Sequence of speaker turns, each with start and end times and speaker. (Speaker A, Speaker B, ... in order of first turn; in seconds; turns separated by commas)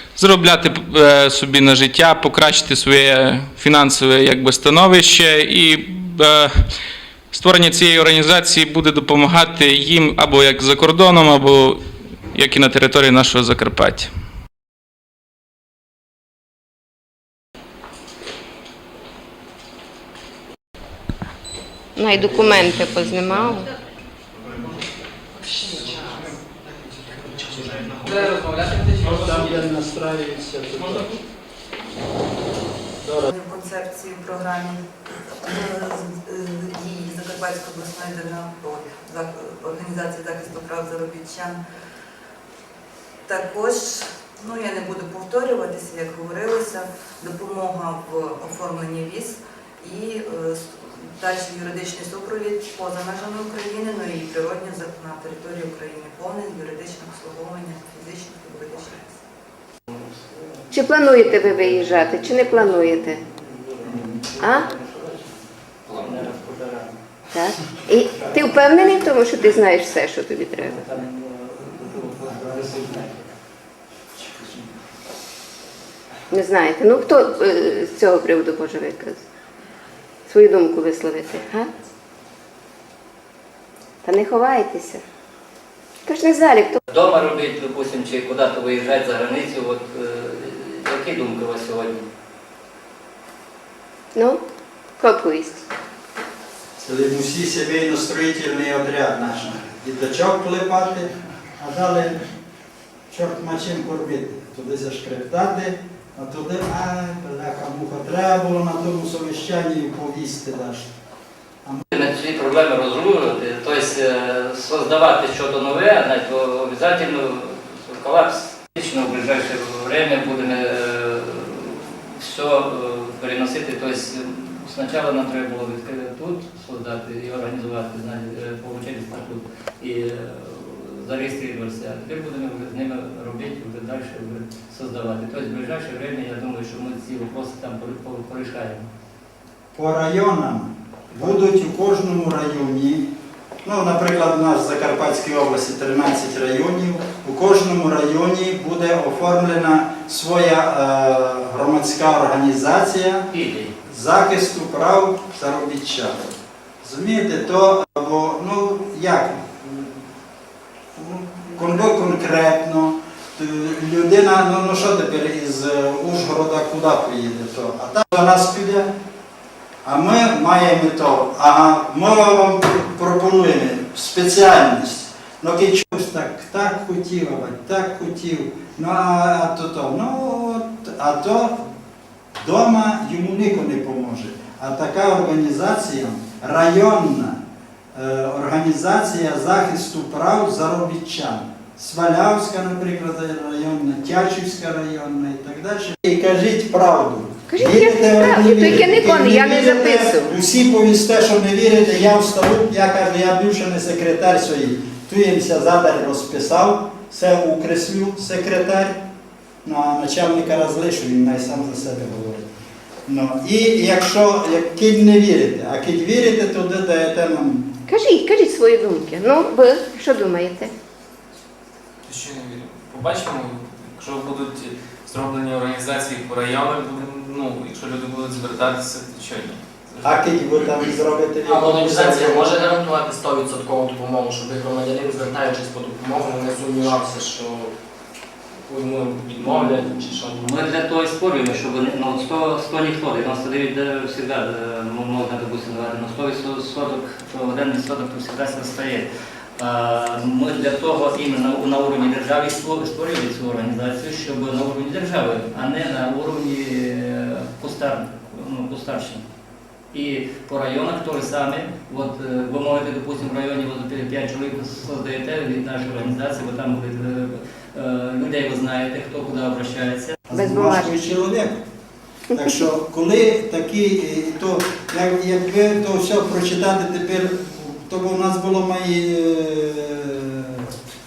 Speaker A: 0.2-6.5, Speaker A: 7.3-11.8, Speaker A: 12.3-14.1, Speaker B: 22.0-23.7, Speaker C: 28.0-28.4, Speaker C: 29.0-31.1, Speaker C: 33.0-33.3, Speaker D: 33.3-34.8, Speaker D: 35.6-41.6, Speaker D: 43.3-50.6, Speaker D: 51.2-59.1, Speaker E: 60.2-65.4, Speaker B: 60.7-63.2, Speaker C: 63.9-64.2, Speaker B: 64.4-64.7, Speaker E: 65.9-67.0, Speaker B: 67.3-70.8, Speaker E: 68.2-68.5, Speaker E: 70.6-73.3, Speaker C: 72.3-73.0, Speaker B: 76.3-79.2, Speaker B: 80.3-81.7, Speaker B: 84.0-85.0, Speaker B: 86.1-86.8, Speaker E: 86.9-92.1, Speaker B: 94.2-94.4, Speaker B: 95.0-95.6, Speaker C: 96.8-102.2, Speaker C: 103.1-110.9, Speaker E: 111.9-138.9, Speaker C: 139.8-143.1, Speaker C: 143.7-153.3, Speaker E: 153.3-153.7, Speaker C: 153.8-156.3, Speaker C: 156.8-160.0, Speaker C: 160.9-168.9, Speaker C: 169.8-181.6, Speaker C: 182.4-187.4, Speaker C: 187.9-209.0, Speaker B: 197.5-200.3, Speaker C: 209.7-212.5, Speaker C: 213.1-217.7, Speaker B: 217.9-220.7, Speaker F: 222.1-224.6, Speaker F: 225.1-230.0, Speaker C: 230.0-232.5, Speaker G: 231.5-237.7, Speaker G: 238.7-240.4, Speaker E: 239.4-259.2, Speaker E: 259.9-270.2, Speaker C: 270.3-271.6, Speaker B: 270.3-270.9, Speaker C: 272.3-280.7